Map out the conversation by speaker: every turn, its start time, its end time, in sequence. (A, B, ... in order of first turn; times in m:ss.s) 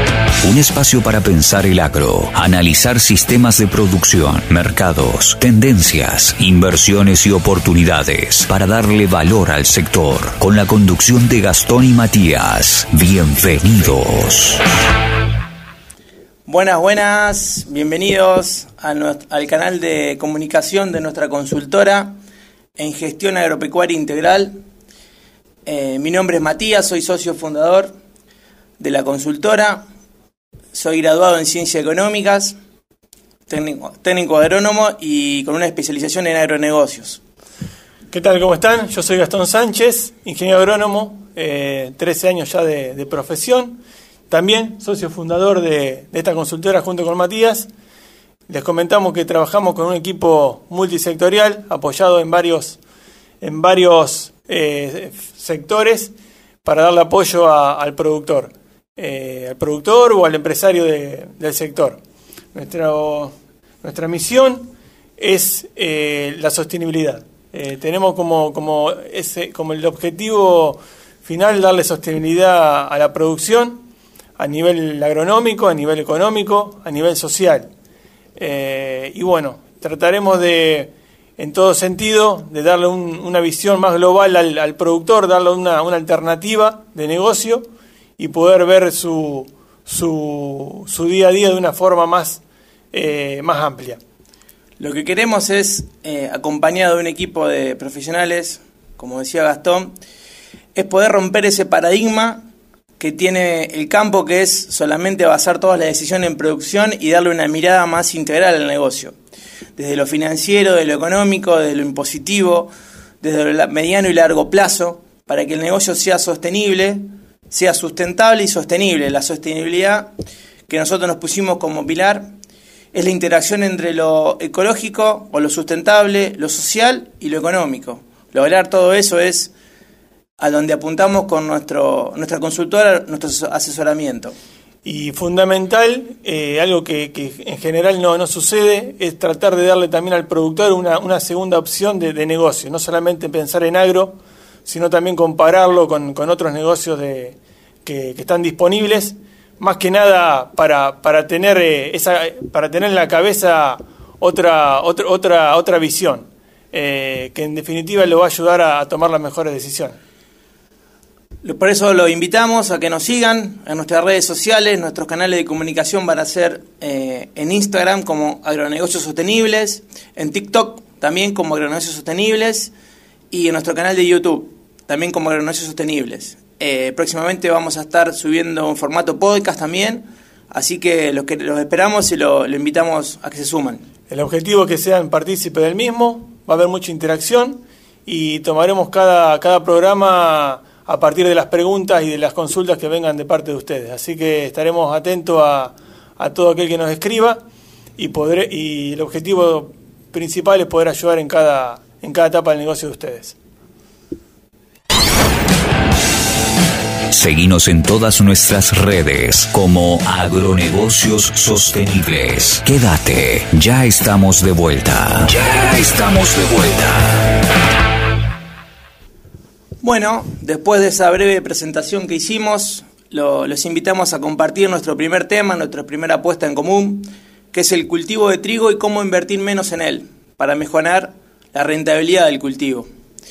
0:00.4-0:14.6 A
0:16.4-0:22.2 B
0:22.8-0:24.6 B
0:25.7-0:27.9 B
0:28.8-0:29.9 B
0:30.7-0:32.6 B
0:33.5-0:37.2 B
0:38.1-0:47.7 C
0:48.5-0:52.8 C
0:53.4-0:56.1 C
0:56.6-1:02.0 C
1:02.5-1:13.8 C
1:14.4-1:17.7 C
1:18.4-1:27.6 C
1:28.2-1:32.4 C
1:32.9-1:34.0 C
1:34.8-1:39.9 B
1:40.7-1:42.4 B
1:43.0-1:49.2 B
1:49.8-1:52.7 B
1:53.2-2:00.1 B
2:00.7-2:02.3 B
2:02.9-2:09.5 B
2:10.4-2:14.3 B
2:14.8-2:40.0 C
2:41.4-2:52.7 B
2:53.3-3:03.8 B
3:04.1-3:17.4 C
3:18.0-3:23.4 C
3:27.1-3:37.2 A
3:39.8-3:52.9 B